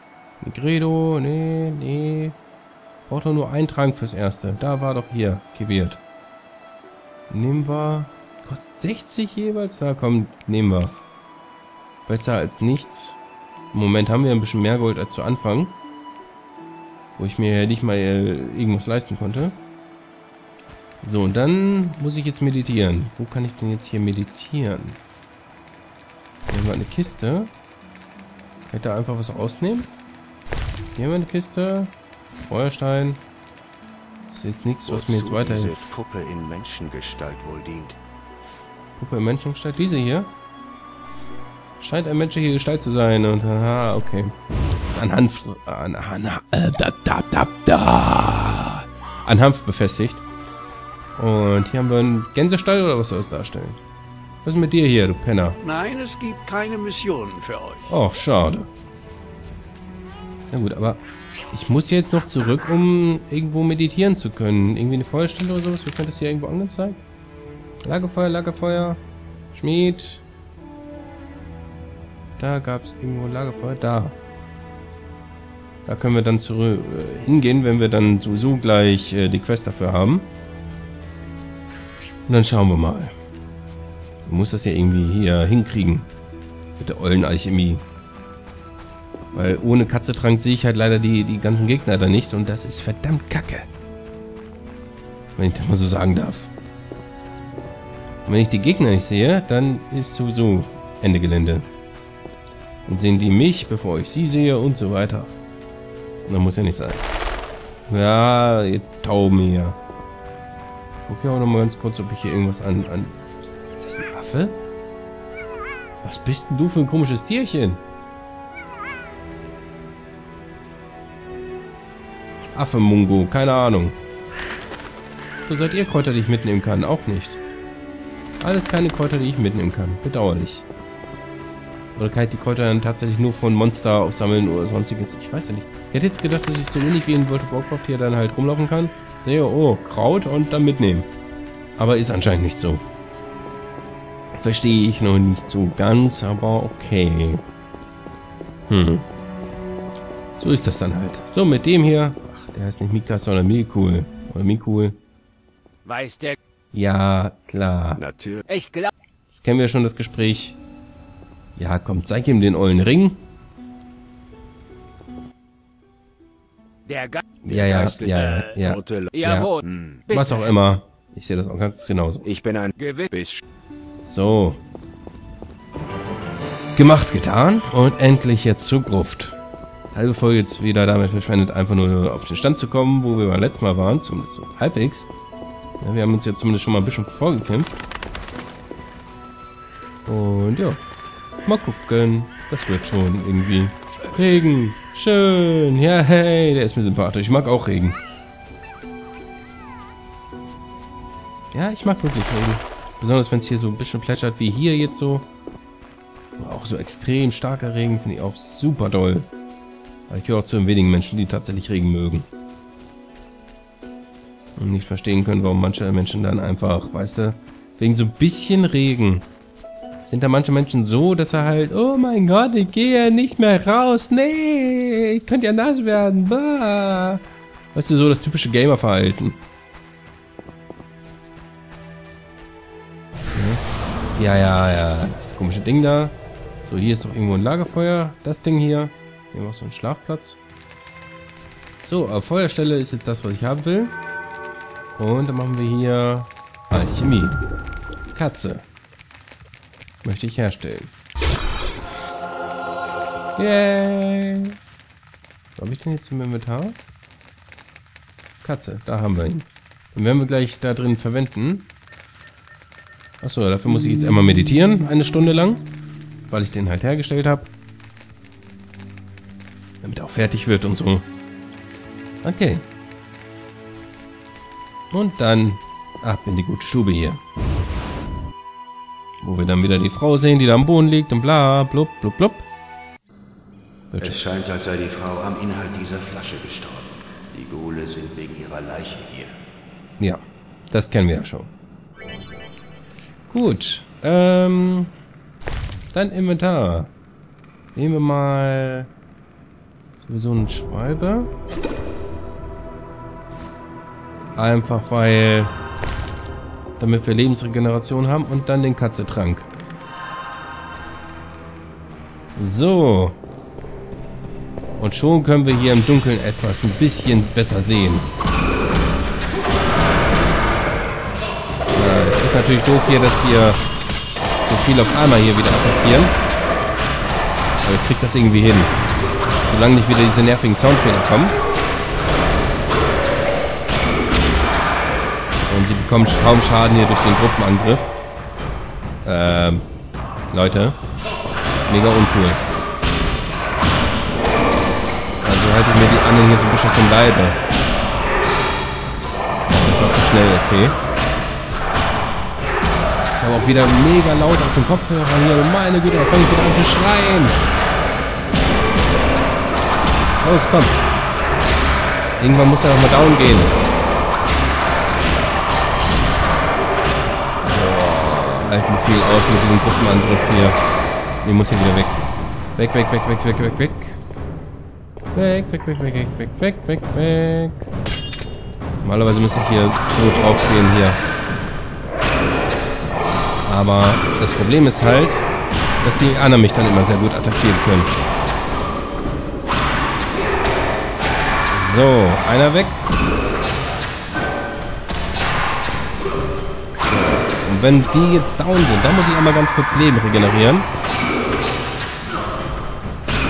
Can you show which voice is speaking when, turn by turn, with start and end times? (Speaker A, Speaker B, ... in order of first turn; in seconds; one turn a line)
Speaker A: 0.4-2.4
Speaker A: 3.1-6.0
Speaker A: 7.3-11.0
Speaker A: 12.1-13.2
Speaker A: 13.7-15.8
Speaker A: 17.2-19.6
Speaker A: 21.0-25.0
Speaker A: 26.5-27.5
Speaker A: 28.7-29.9
Speaker A: 30.9-31.9
Speaker A: 32.5-33.2
Speaker A: 34.3-35.8
Speaker B: 34.9-38.0
Speaker A: 39.0-40.3
Speaker A: 41.8-44.3
Speaker A: 44.9-50.2
Speaker A: 51.2-53.8
Speaker A: 54.4-55.6
Speaker C: 55.6-56.6
Speaker C: 57.3-57.8
Speaker A: 57.9-58.7
Speaker A: 60.5-67.0
Speaker A: 67.8-70.2
Speaker A: 72.4-74.2
Speaker A: 75.8-80.3
Speaker A: 82.3-83.1
Speaker A: 84.2-86.1
Speaker A: 86.8-87.8
Speaker A: 89.3-93.7
Speaker A: 95.3-96.5
Speaker A: 98.2-101.7
Speaker A: 102.8-105.3
Speaker A: 106.2-107.0
Speaker A: 107.9-109.8
Speaker A: 111.0-114.6
Speaker A: 116.0-117.8
Speaker A: 122.5-124.0
Speaker A: 125.4-127.4
Speaker A: 128.4-130.7
Speaker A: 131.9-141.1
Speaker A: 141.8-142.8
Speaker A: 144.4-147.4
Speaker A: 148.7-149.1
Speaker A: 150.4-155.0
Speaker C: 155.8-156.4
Speaker A: 156.7-158.0
Speaker B: 157.9-158.4
Speaker C: 158.5-158.9
Speaker A: 159.3-160.6
Speaker A: 161.6-163.2
Speaker C: 166.9-167.2
Speaker A: 167.4-169.5
Speaker B: 167.5-170.0
Speaker C: 167.8-168.5
Speaker C: 169.1-169.6
Speaker A: 170.1-172.2
Speaker B: 172.2-173.4
Speaker C: 172.8-173.1
Speaker A: 174.0-174.6
Speaker A: 176.7-179.4
Speaker A: 179.9-185.1
Speaker A: 185.8-187.8
Speaker A: 190.1-190.8
Speaker A: 191.4-198.0
Speaker A: 201.5-205.3
Speaker A: 206.4-209.3
Speaker A: 210.1-212.3
Speaker A: 214.6-219.2
Speaker A: 220.1-229.4
Speaker A: 233.3-233.6
Speaker A: 234.2-240.4
Speaker A: 241.8-243.9
Speaker A: 245.0-247.4
Speaker A: 248.1-248.6
Speaker A: 250.0-250.9
Speaker A: 253.3-254.6
Speaker A: 255.6-256.8
Speaker A: 258.4-261.7
Speaker A: 263.2-265.6
Speaker A: 266.3-267.5
Speaker A: 269.8-271.1
Speaker A: 272.2-272.6
Speaker A: 274.9-277.2
Speaker A: 279.2-282.5
Speaker A: 283.9-284.2
Speaker B: 284.0-289.3
Speaker A: 290.0-291.5
Speaker A: 293.3-294.9
Speaker A: 295.9-296.9
Speaker A: 297.7-298.9
Speaker A: 300.0-301.3
Speaker A: 304.4-305.6
Speaker A: 306.8-309.5
Speaker A: 312.4-313.2
Speaker A: 314.8-318.1
Speaker A: 321.7-323.6
Speaker A: 324.4-326.2
Speaker A: 327.6-328.8
Speaker A: 329.5-331.4
Speaker A: 335.5-338.0
Speaker A: 339.0-339.7
Speaker A: 340.3-340.8
Speaker A: 341.7-342.4
Speaker A: 345.2-347.4
Speaker A: 349.5-350.8
Speaker A: 353.1-357.4
Speaker A: 360.2-360.8
Speaker A: 362.2-363.6
Speaker A: 367.4-370.6
Speaker A: 371.2-372.0
Speaker A: 372.6-374.0
Speaker A: 375.1-377.7
Speaker A: 378.8-381.0
Speaker A: 383.4-385.3
Speaker A: 385.8-387.9
Speaker A: 391.5-392.9
Speaker A: 396.8-400.7